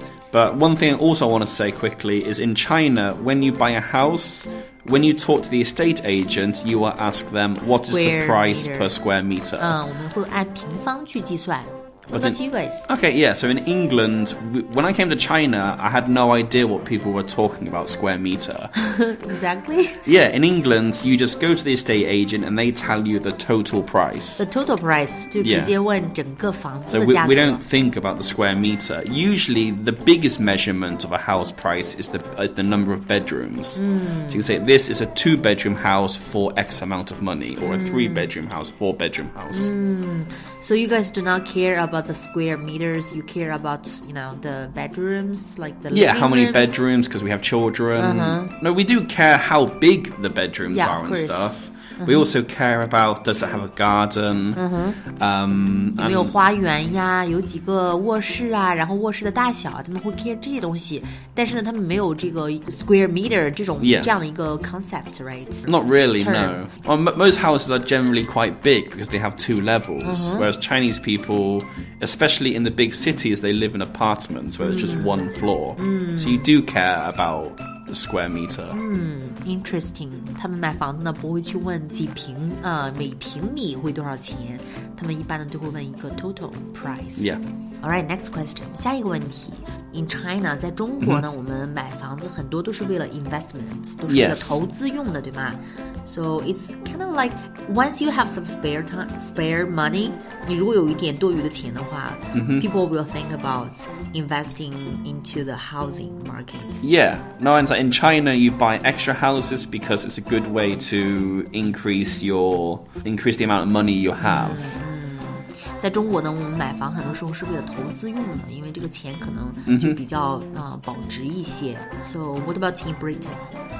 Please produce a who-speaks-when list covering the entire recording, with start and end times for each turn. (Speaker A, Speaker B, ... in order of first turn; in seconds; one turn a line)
Speaker A: 0.3-9.8
Speaker B: 7.6-8.9
Speaker B: 9.6-12.9
Speaker A: 12.1-18.7
Speaker B: 18.8-20.0
Speaker A: 20.1-24.5
Speaker B: 24.4-27.6
Speaker A: 25.4-25.8
Speaker A: 26.9-39.7
Speaker B: 33.8-34.5
Speaker B: 37.6-38.3
Speaker B: 39.5-46.8
Speaker A: 45.9-56.3
Speaker B: 47.9-48.5
Speaker B: 50.7-52.3
Speaker B: 54.5-55.0
Speaker B: 56.0-66.7
Speaker A: 63.8-64.1
Speaker A: 65.7-78.8
Speaker B: 70.0-70.5
Speaker B: 74.6-76.5
Speaker B: 78.7-106.8
Speaker A: 94.1-94.6
Speaker A: 102.3-102.7
Speaker A: 106.8-114.7
Speaker B: 114.2-123.5
Speaker A: 119.7-120.0